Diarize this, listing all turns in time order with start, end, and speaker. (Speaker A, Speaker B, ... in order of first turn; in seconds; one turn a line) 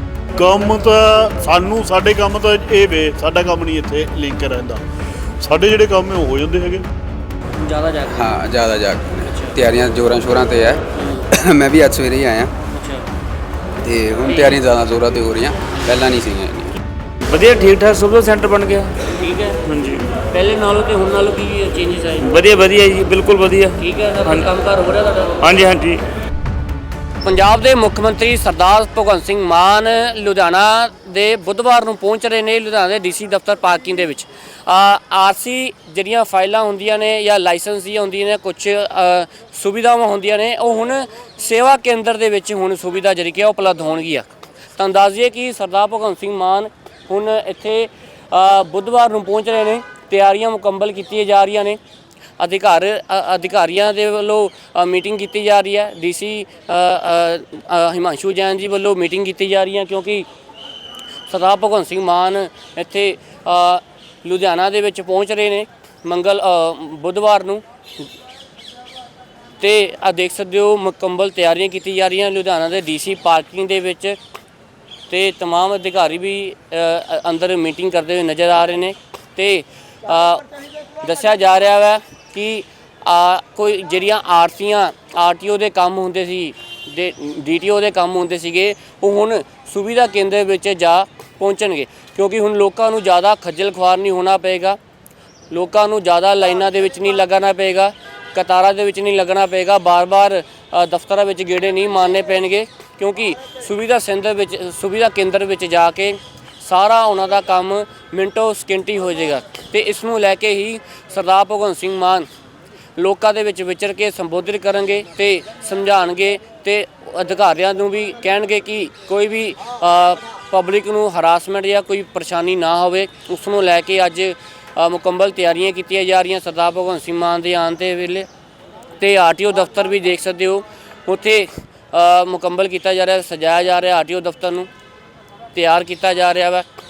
Speaker A: 0.4-4.8
Speaker A: 5.4-6.8
Speaker B: 7.6-8.4
Speaker C: 8.1-12.5
Speaker B: 9.2-9.6
Speaker B: 10.9-11.3
Speaker B: 12.7-13.1
Speaker C: 13.8-16.7
Speaker B: 14.2-14.6
Speaker B: 15.7-16.0
Speaker D: 17.3-18.9
Speaker B: 19.1-19.6
Speaker D: 19.6-20.1
Speaker B: 20.3-22.3
Speaker D: 22.2-24.5
Speaker B: 23.8-25.4
Speaker D: 25.4-26.0
Speaker B: 27.2-51.8
Speaker B: 52.4-60.2
Speaker B: 61.3-67.6
Speaker B: 69.6-74.2
Speaker B: 75.1-94.8
Speaker B: 95.5-112.3
Speaker B: 113.0-128.3
Speaker B: 129.0-134.7
Speaker B: 135.5-136.7